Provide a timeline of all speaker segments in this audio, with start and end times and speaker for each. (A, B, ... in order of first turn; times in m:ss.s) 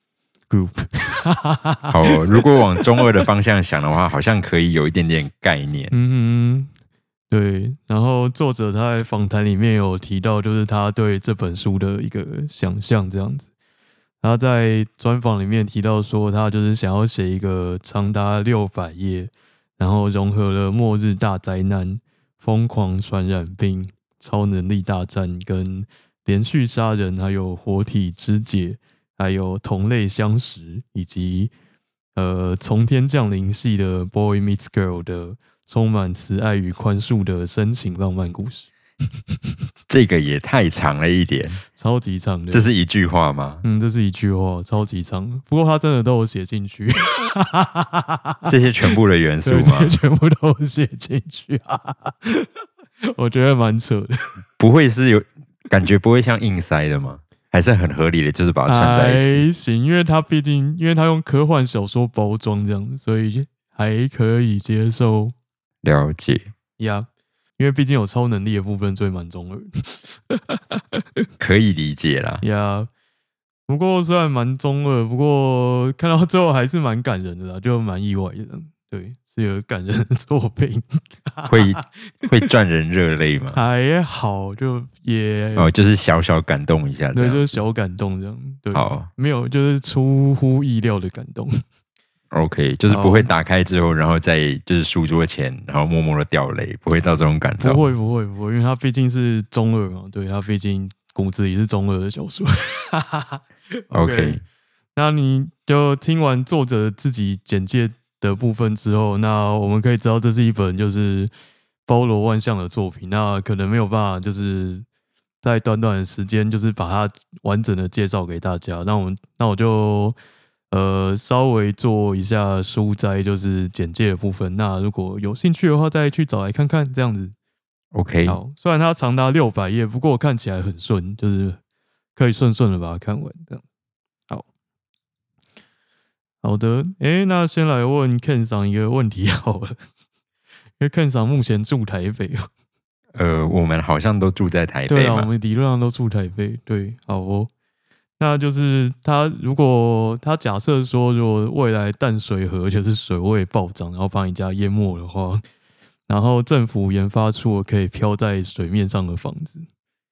0:00.5-0:03.0 A
0:01.9-0:05.9 B
0:05.9-0:06.7 A
0:07.3-0:13.5 A
0:14.2-0:31.5 A
0:32.2-0:38.7 A
0:39.9-0:41.6 B
0:41.7-0:42.7 A
0:42.5-0:43.6 B
0:43.6-0:48.5 A
0:48.5-0:50.0 B
0:49.4-0:52.5 A
0:53.0-0:54.3 A
0:54.6-0:59.4 B
0:58.6-1:05.3 A
1:05.8-1:06.5 B
1:06.8-1:11.0 A
1:11.4-1:12.4 B
1:12.4-1:12.9 A
1:13.7-1:22.1 A
1:21.5-1:23.6 B
1:23.5-1:25.7 A
1:25.6-1:27.4 B
1:27.1-1:31.6 A
1:28.7-1:29.1 B
1:32.3-1:37.9 B
1:32.9-1:33.3 A
1:37.6-1:44.4 A
1:43.9-1:44.4 B
1:45.0-1:51.3 A
1:51.8-1:54.8 A
1:55.4-2:00.2 A
2:00.7-2:07.3 A
2:07.9-2:08.4 B
2:08.2-2:11.6 A
2:12.2-2:13.6 A
2:16.4-2:19.8 A
2:20.8-2:22.5 A
2:23.1-2:25.3 B
2:24.9-2:27.5 A
2:28.2-2:35.4 A
2:36.1-2:39.6 A